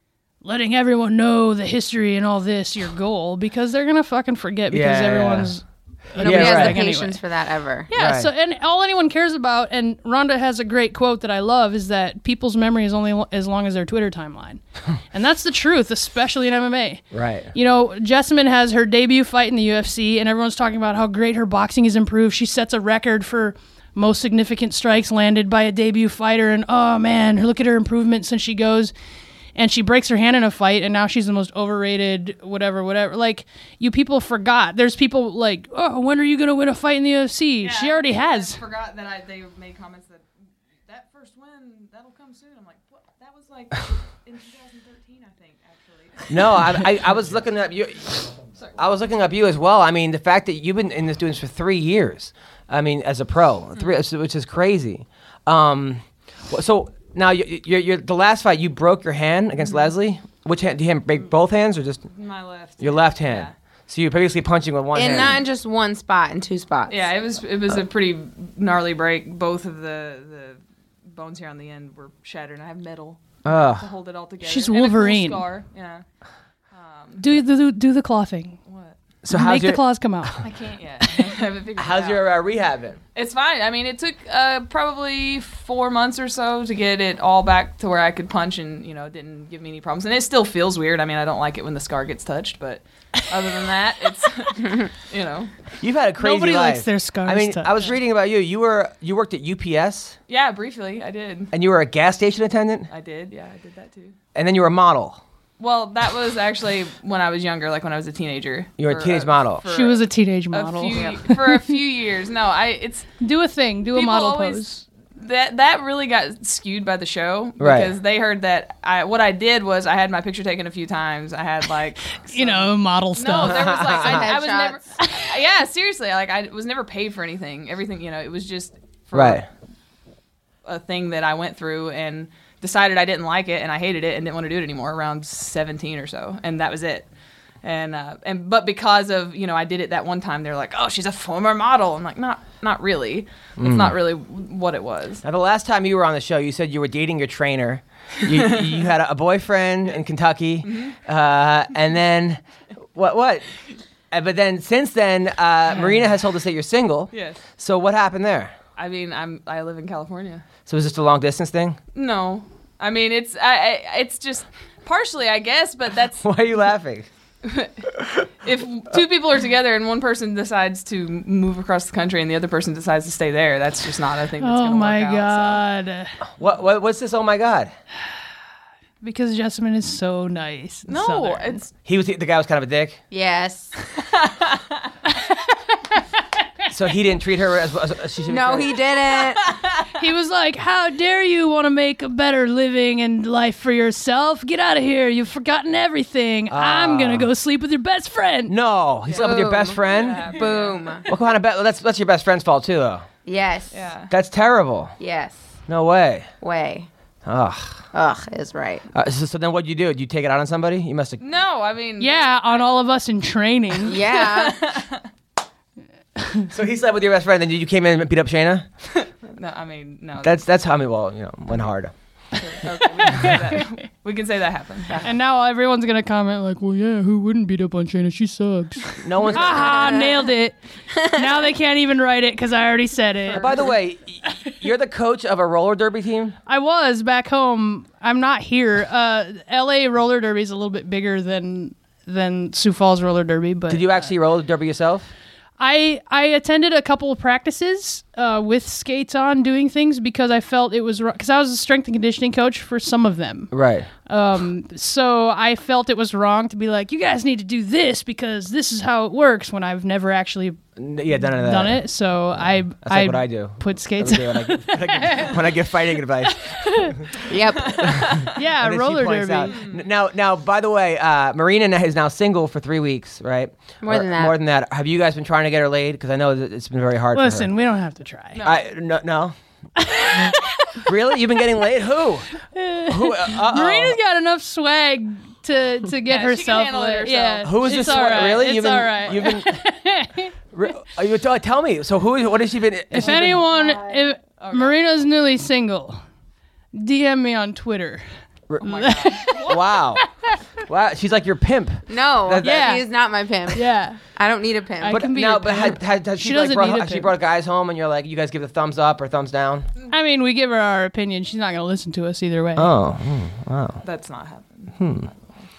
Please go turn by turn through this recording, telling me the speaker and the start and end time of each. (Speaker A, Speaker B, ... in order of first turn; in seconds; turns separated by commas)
Speaker A: 0.4-7.2, Speaker B: 4.7-5.5, Speaker B: 6.2-6.8, Speaker C: 6.2-7.9, Speaker A: 7.9-28.9, Speaker B: 7.9-8.3, Speaker B: 17.1-17.5, Speaker A: 29.6-38.6, Speaker D: 37.6-40.2, Speaker D: 40.9-46.9, Speaker B: 46.3-48.2, Speaker B: 48.8-62.0, Speaker D: 62.1-63.5, Speaker B: 62.8-65.4, Speaker C: 64.9-67.0, Speaker D: 66.9-76.0, Speaker B: 73.4-73.8, Speaker A: 74.4-75.4, Speaker D: 76.7-77.3, Speaker A: 77.2-78.6, Speaker D: 78.7-79.0, Speaker B: 79.2-80.3, Speaker A: 79.3-80.4, Speaker D: 80.4-82.2, Speaker B: 81.8-83.0, Speaker D: 83.1-95.5, Speaker B: 95.8-100.2, Speaker A: 96.2-97.7, Speaker D: 100.3-101.5, Speaker B: 101.5-102.9, Speaker D: 102.9-104.1, Speaker B: 104.3-105.2, Speaker D: 105.6-113.1, Speaker B: 108.8-109.6, Speaker A: 109.7-111.5, Speaker A: 113.2-114.8, Speaker D: 113.9-129.5, Speaker B: 117.6-117.9, Speaker A: 122.3-123.7, Speaker B: 123.3-124.3, Speaker C: 124.0-124.8, Speaker A: 125.0-125.3, Speaker B: 129.1-129.4, Speaker D: 130.6-137.1, Speaker D: 137.6-145.2, Speaker B: 143.6-143.9, Speaker B: 145.2-152.4, Speaker D: 150.6-150.9, Speaker B: 152.9-153.4, Speaker B: 154.1-158.5, Speaker D: 157.1-157.4, Speaker D: 158.8-160.4, Speaker B: 160.7-161.8, Speaker D: 161.9-166.2, Speaker B: 166.2-167.1, Speaker D: 167.4-175.6, Speaker A: 174.4-176.1, Speaker B: 176.4-177.7, Speaker A: 179.0-181.7, Speaker D: 180.9-181.7, Speaker B: 181.8-183.0, Speaker C: 183.1-183.8, Speaker D: 183.9-184.9, Speaker B: 186.7-188.8, Speaker C: 188.3-189.5, Speaker D: 189.4-189.9, Speaker A: 190.0-198.5, Speaker B: 196.5-197.3, Speaker B: 198.5-200.2, Speaker C: 199.1-201.1, Speaker D: 199.8-201.0, Speaker B: 201.1-203.1, Speaker C: 203.2-203.7, Speaker D: 203.7-204.1, Speaker B: 204.1-204.9, Speaker C: 205.0-205.4, Speaker B: 205.7-206.3, Speaker C: 206.4-206.9, Speaker B: 207.2-207.8, Speaker C: 207.9-208.8, Speaker B: 208.9-211.2, Speaker D: 211.2-212.7, Speaker A: 212.0-214.0, Speaker C: 213.8-214.6, Speaker D: 214.0-215.0, Speaker A: 216.2-216.5, Speaker B: 216.5-218.7, Speaker D: 219.0-220.4, Speaker B: 220.2-221.9, Speaker D: 222.3-225.0, Speaker A: 223.0-223.4, Speaker A: 225.0-233.5, Speaker B: 229.0-229.9, Speaker C: 229.6-230.1, Speaker B: 233.3-236.3, Speaker A: 236.5-243.9, Speaker B: 243.7-245.1, Speaker A: 245.6-253.5, Speaker B: 253.5-253.9, Speaker A: 254.1-260.6, Speaker B: 260.8-261.8, Speaker A: 261.2-265.4, Speaker B: 262.8-267.1, Speaker A: 266.3-267.0, Speaker C: 267.3-268.2, Speaker B: 267.6-277.5, Speaker D: 267.7-268.3, Speaker A: 268.3-269.5, Speaker D: 269.4-269.8, Speaker C: 273.8-274.3, Speaker A: 277.1-278.4, Speaker D: 278.3-278.6, Speaker B: 278.4-279.3, Speaker A: 279.8-280.8, Speaker B: 280.8-284.0, Speaker A: 282.5-290.3, Speaker D: 286.1-288.1, Speaker B: 287.4-289.6, Speaker B: 290.5-293.4, Speaker A: 292.9-296.0, Speaker D: 293.1-294.8, Speaker A: 296.7-298.0, Speaker D: 298.6-299.6, Speaker A: 298.6-300.4, Speaker B: 299.4-300.0, Speaker B: 300.6-302.8, Speaker C: 301.9-305.0, Speaker A: 302.4-302.8, Speaker A: 303.5-304.0, Speaker A: 304.8-307.1, Speaker B: 304.9-309.7, Speaker A: 309.9-312.7, Speaker B: 312.6-313.8, Speaker D: 313.8-315.5, Speaker B: 314.8-315.1